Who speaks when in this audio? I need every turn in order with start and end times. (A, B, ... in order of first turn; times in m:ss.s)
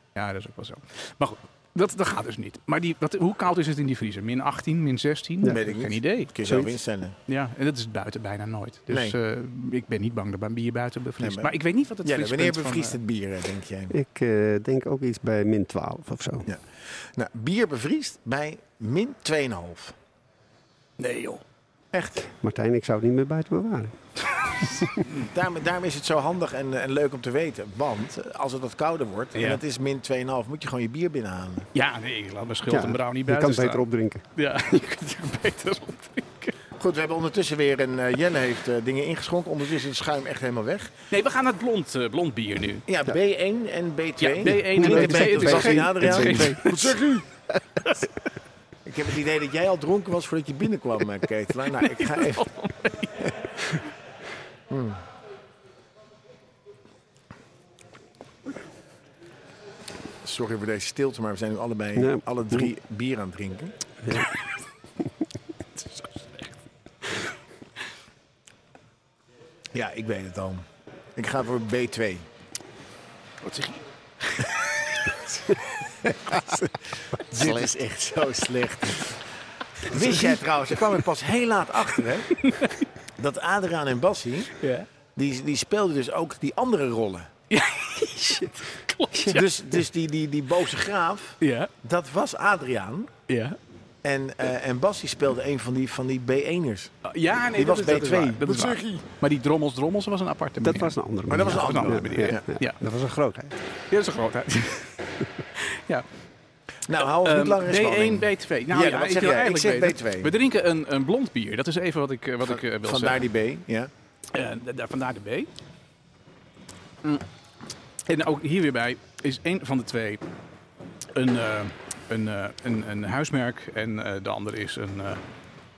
0:00.2-0:06.3 A
0:05.5-0:07.2 B
0:06.4-0:06.7 C
0:07.3-0:13.0 A
0:08.9-0:09.2 B
0:11.2-0:13.9 B
0:13.9-0:16.5 C
0:17.1-0:20.0 B
0:21.0-0:21.4 A
0:21.9-0:22.2 B
0:22.2-0:24.0 C
0:24.6-0:25.1 A
0:24.6-0:24.9 C
0:25.2-0:31.7 B
0:29.4-0:29.6 A
0:31.7-0:36.6 A
0:32.7-0:34.2 C
0:36.8-0:40.9 B
0:41.1-0:42.8 A
0:42.9-0:47.3 B
0:44.2-0:46.7 A
0:44.7-0:47.0 C
0:48.8-0:52.5 B
0:51.8-0:53.2 A
0:54.7-0:55.0 B
1:00.2-1:03.7 B
1:02.0-1:02.7 C
1:09.7-1:10.6 B
1:11.2-1:12.2 B
1:13.4-1:14.5 A
1:16.0-1:19.2 B
1:19.8-1:22.4 B
1:22.4-1:22.9 A
1:23.2-1:24.6 B
1:24.6-1:24.9 A
1:25.2-1:27.3 B
1:27.5-1:29.6 A
1:29.3-1:33.1 B
1:31.4-1:31.7 A
1:33.3-1:33.6 A
1:34.0-1:37.0 B
1:37.0-1:42.8 A
1:37.6-1:39.0 B
1:40.6-1:43.5 C
1:41.3-1:42.4 B
1:43.9-1:46.0 A
1:46.9-1:50.3 B
1:47.2-1:53.2 A
1:52.5-1:53.9 B
1:54.3-1:55.5 A
1:58.1-2:00.2 A
2:01.2-2:05.2 A